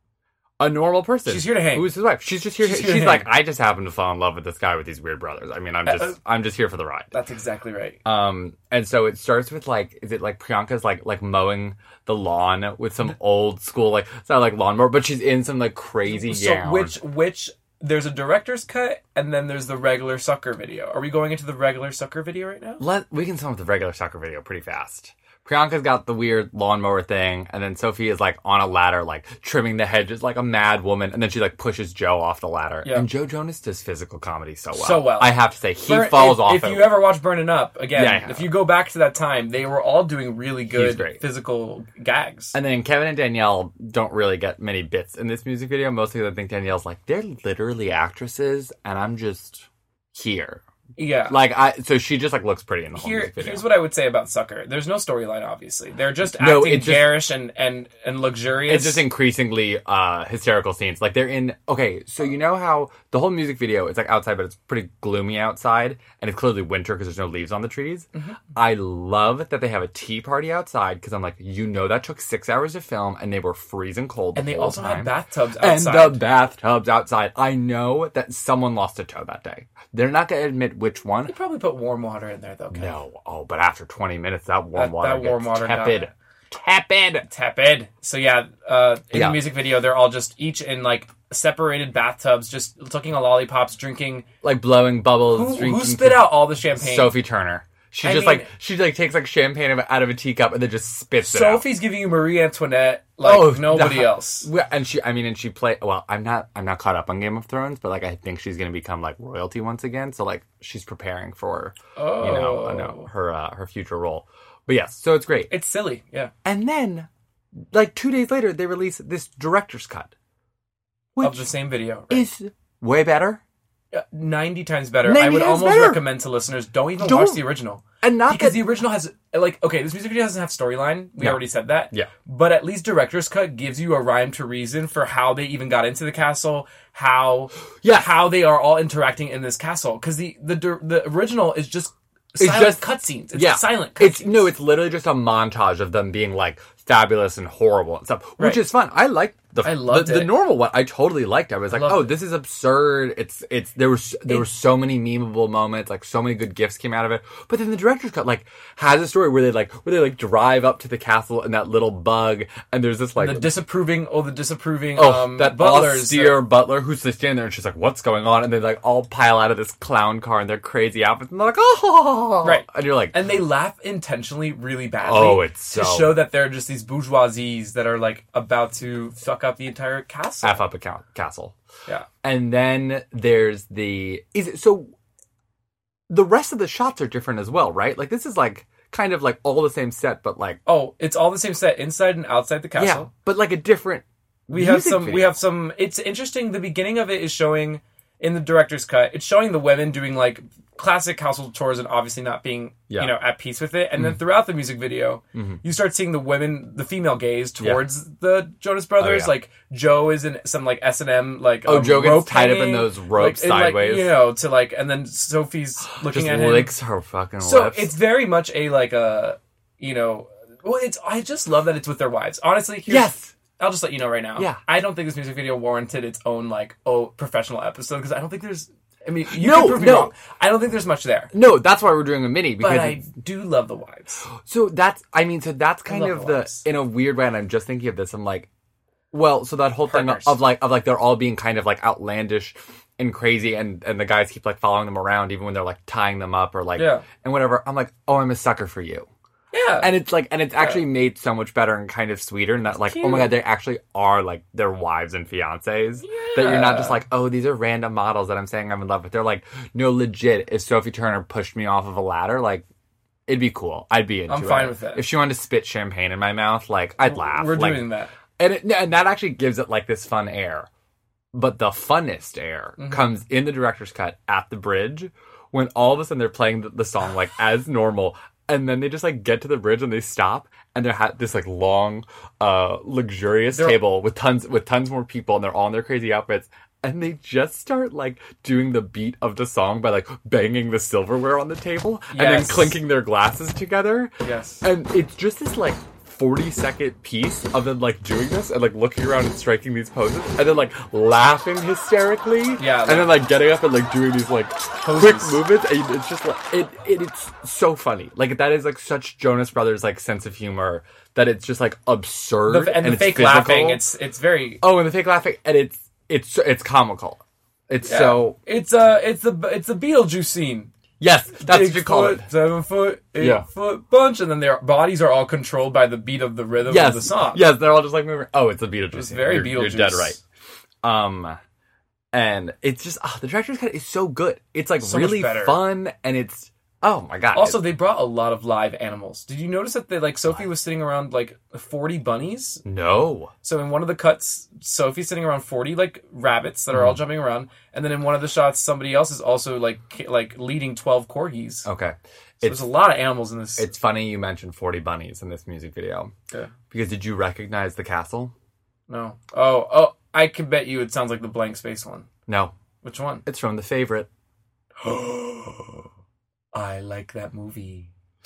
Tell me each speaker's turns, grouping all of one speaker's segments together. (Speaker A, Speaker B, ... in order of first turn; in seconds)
Speaker A: 0.6-7.1, 8.1-17.0, 22.8-37.0, 38.0-38.5, 40.7-41.2, 42.5-50.6, 51.3-53.7, 56.2-57.3, 58.7-81.3, 82.7-87.3, 89.1-89.5, 94.4-101.7, 103.2-115.5, 116.5-117.1, 117.7-120.1, 121.2-121.5, 122.1-123.4, 125.0-126.0, 127.0-127.5, 128.0-128.7, 131.2-132.1, 137.8-138.3, 142.4-163.5, 165.0-173.2, 175.0-176.2, 180.4-181.6, 182.2-184.9, 186.1-190.6, 192.8-195.3, 202.9-203.2, 205.3-205.6, 209.0-209.4, 211.7-214.2, 216.0-217.9, 222.9-223.3, 229.1-230.1, 231.3-233.0, 234.4-238.5, 239.1-249.1, 249.8-262.6, 263.3-270.7, 271.3-294.1, 294.6-313.8, 314.6-318.4, 321.0-322.3, 323.2-323.4, 326.7-330.2, 330.8-331.4, 332.1-337.6, 342.6-343.3, 346.7-347.0, 351.6-352.8, 353.6-356.1, 356.7-358.3, 362.3-362.5, 363.3-364.1
Speaker B: 1.2-1.9, 2.6-3.3, 5.8-6.2, 7.1-8.0, 16.1-22.8, 32.8-33.1, 34.7-42.6, 51.0-51.4, 52.9-59.1, 68.1-68.4, 74.3-76.2, 81.2-83.0, 84.8-86.1, 87.3-94.3, 95.2-97.2, 98.0-98.5, 101.2-104.5, 112.0-113.1, 115.5-116.3, 121.2-122.3, 123.9-144.5, 148.4-148.7, 149.6-150.3, 151.7-152.2, 163.2-166.4, 172.4-180.7, 190.7-193.1, 194.5-216.7, 217.4-228.7, 229.2-231.3, 232.6-234.3, 235.9-236.7, 239.9-240.4, 246.8-247.1, 249.5-249.9, 252.7-253.4, 256.0-257.0, 264.3-265.1, 267.0-268.1, 272.8-273.2, 283.5-283.8, 292.1-292.8, 294.2-294.6, 302.6-303.1, 304.8-305.4, 312.5-314.6, 317.9-320.7, 321.4-327.4, 328.9-330.2, 334.8-335.6, 337.3-342.6, 343.4-351.7, 352.4-353.7, 358.9-362.1, 362.8-363.2, 364.8-365.9, 366.5-367.9